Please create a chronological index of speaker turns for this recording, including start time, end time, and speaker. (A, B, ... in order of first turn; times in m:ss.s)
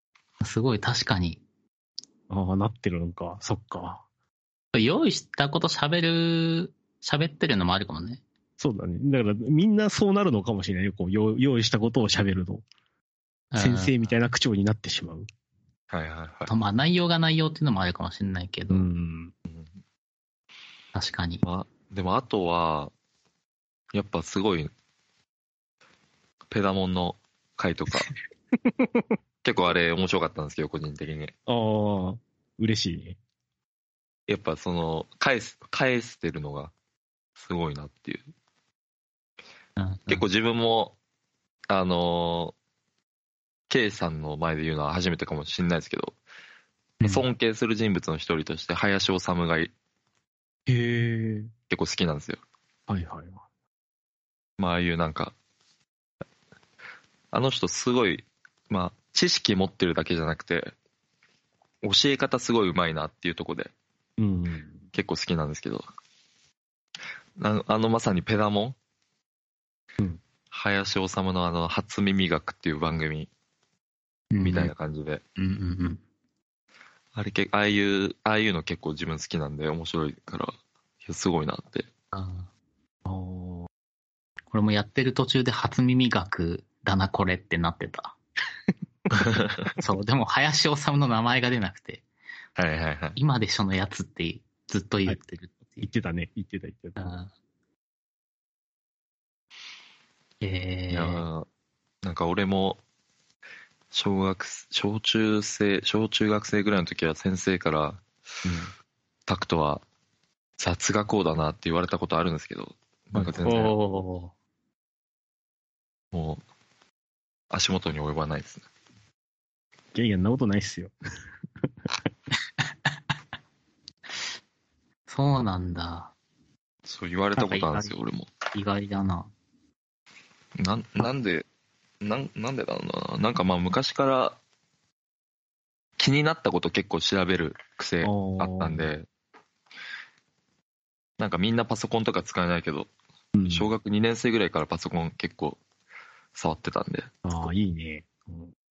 0:00.4-0:01.4 A
0:02.3-0:04.0 B
0:04.7-0:08.2 A
0:08.6-0:12.6 B
0:13.5-0:14.0 A
0:13.6-0:15.3 B
0:15.9-0:16.5 C
0:16.5-0:18.9 A
0:18.7-0:19.3 B
0:20.9-0:21.4 A
0:21.4-0:22.9 C
0:23.9-0:24.7 C
0:26.5-0:28.1 C
0:28.7-0:29.0 B
0:29.4-0:31.3 C
0:31.5-0:33.2 B
0:34.3-0:36.7 C
0:37.4-0:38.2 C
0:39.8-0:40.2 A
0:40.1-0:41.0 C
0:41.7-0:42.5 C
0:43.7-0:46.2 C
0:47.0-0:49.7 C
0:50.7-0:51.5 B
0:51.7-0:52.4 C
0:52.9-0:53.4 B
0:54.6-0:55.3 C
0:57.3-1:00.7 C
1:01.8-1:03.7 C
1:04.2-1:04.8 B
1:04.9-1:05.8 C
1:07.4-1:08.8 C
1:10.5-1:13.3 C
1:14.3-1:14.7 A
1:14.4-1:15.2 C
1:15.4-1:16.0 A
1:17.1-1:21.9 C
1:22.1-1:22.5 A
1:23.0-1:23.7 B
1:24.5-1:28.2 A
1:29.1-1:29.7 C
1:29.8-1:32.0 A
1:32.6-1:33.2 C
1:33.2-1:35.9 A
1:35.8-1:37.0 B
1:37.0-1:37.3 A
1:40.4-1:41.2 A
1:40.9-1:41.5 C
1:42.0-1:42.8 C
1:43.9-1:48.0 C
1:48.4-1:48.7 B
1:49.3-1:49.8 C
1:50.6-1:53.7 C
1:53.4-1:54.3 A
1:56.1-1:56.4 C
1:57.5-1:58.6 C
1:59.9-2:00.9 B
2:05.1-2:06.1 A
2:06.8-2:08.3 C
2:07.4-2:07.9 A
2:08.5-2:09.3 A
2:10.6-2:11.4 C
2:12.0-2:14.4 C
2:16.0-2:19.1 C
2:18.0-2:18.9 B
2:21.2-2:22.9 C
2:23.3-2:23.7 B
2:23.4-2:25.6 C
2:26.3-2:27.1 C
2:27.2-2:28.5 B